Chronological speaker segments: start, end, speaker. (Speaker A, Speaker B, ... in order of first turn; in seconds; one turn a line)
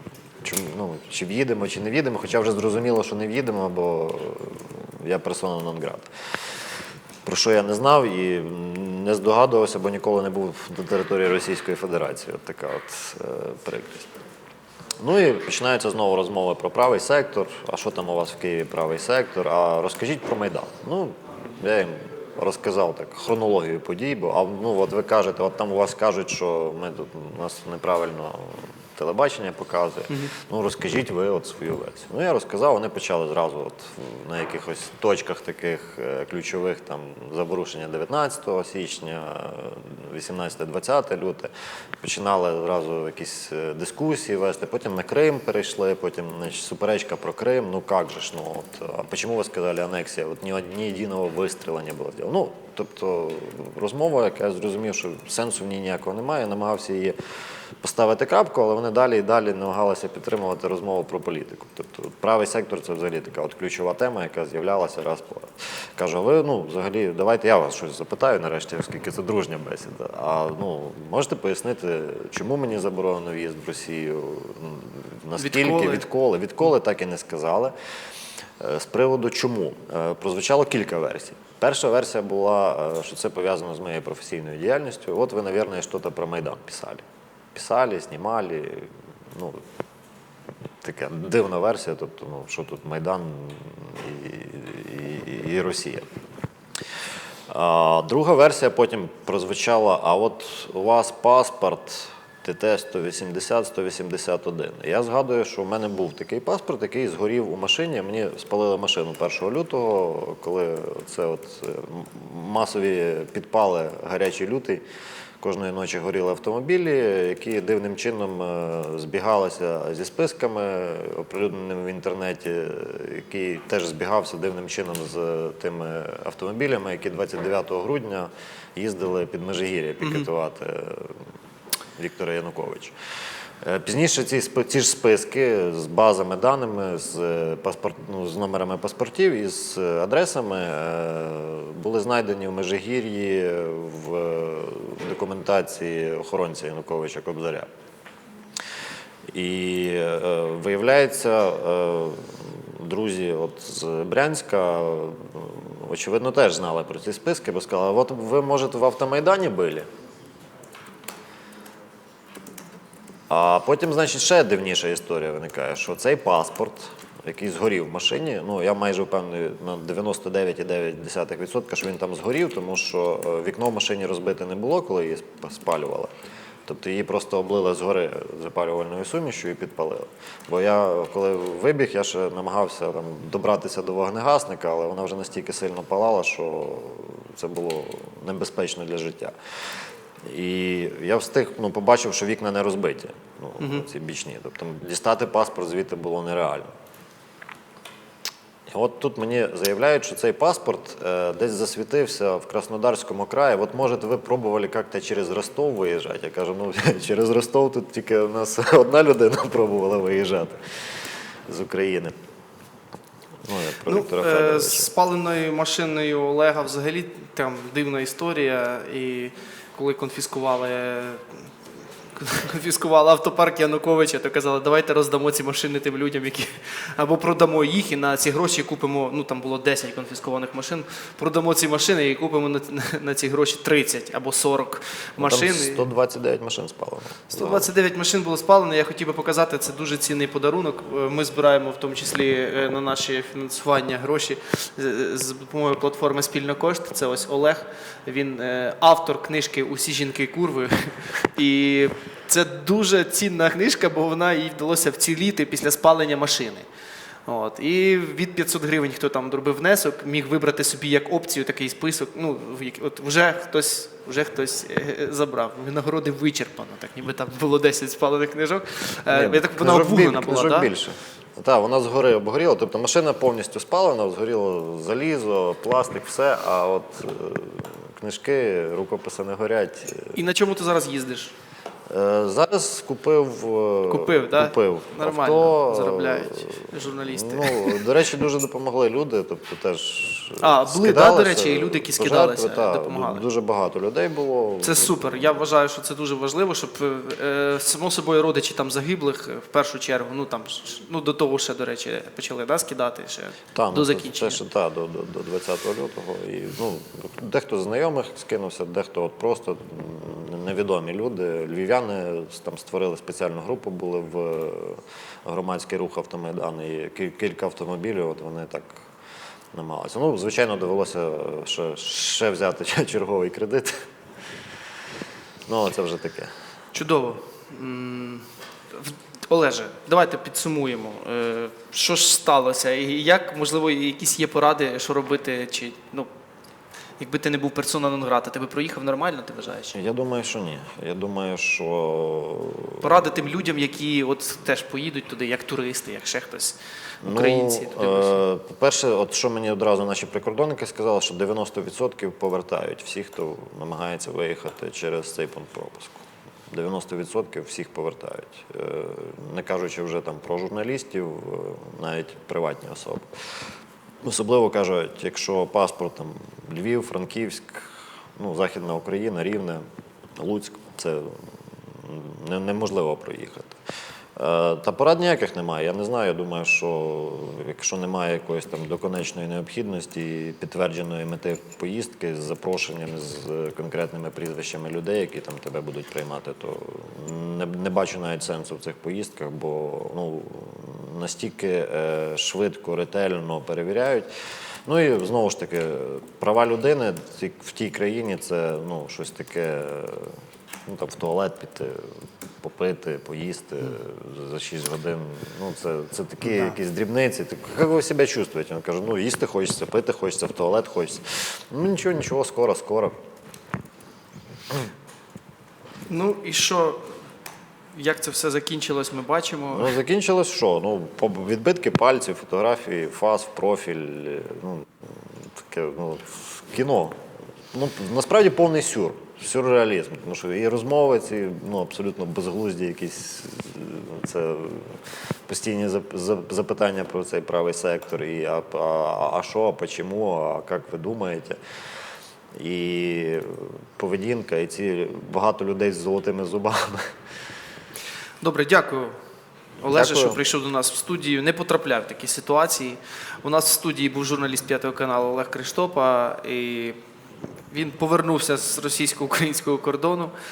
Speaker A: 0.4-6.1
Speaker A: 7.2-14.1
Speaker A: 15.0-41.5
Speaker A: 42.0-57.1
Speaker A: 57.8-77.7
Speaker B: 75.4-76.1
Speaker A: 78.6-87.0
Speaker A: 87.5-89.6
Speaker A: 90.8-96.0
Speaker A: 97.5-114.8
Speaker A: 115.4-131.2
Speaker B: 130.0-130.3
Speaker A: 132.0-132.9
Speaker A: 133.6-147.7
Speaker A: 149.3-159.9
Speaker A: 163.3-176.1
Speaker A: 176.7-189.3
Speaker A: 190.3-196.7
Speaker B: 193.6-193.9
Speaker A: 198.7-210.6
Speaker A: 211.5-212.1
Speaker A: 213.4-214.9
Speaker B: 213.9-221.5
Speaker B: 222.2-235.9
Speaker A: 235.2-237.7
Speaker B: 237.3-256.6
Speaker B: 257.3-270.7
Speaker A: 269.1-280.2
Speaker B: 280.1-281.3
Speaker A: 281.9-295.3
Speaker B: 283.9-287.8
Speaker B: 290.4-293.2
Speaker B: 294.6-304.4
Speaker A: 303.5-318.8
Speaker A: 319.5-323.7
Speaker A: 325.5-326.3
Speaker B: 326.7-336.1
Speaker B: 337.0-339.8
Speaker A: 339.7-343.0
Speaker B: 342.8-348.2
Speaker A: 347.0-363.1
Speaker A: 364.0-369.6
Speaker A: 370.2-373.5
Speaker A: 374.2-394.1
Speaker A: 394.6-400.1
Speaker A: 400.7-401.8
Speaker A: 402.4-412.9
Speaker B: 415.9-416.9
Speaker B: 417.7-419.8
Speaker A: 419.5-424.7
Speaker A: 425.4-427.0
Speaker A: 427.5-441.4
Speaker A: 442.4-446.9
Speaker B: 448.2-448.9
Speaker B: 449.6-456.8
Speaker A: 449.7-450.2
Speaker B: 457.5-460.1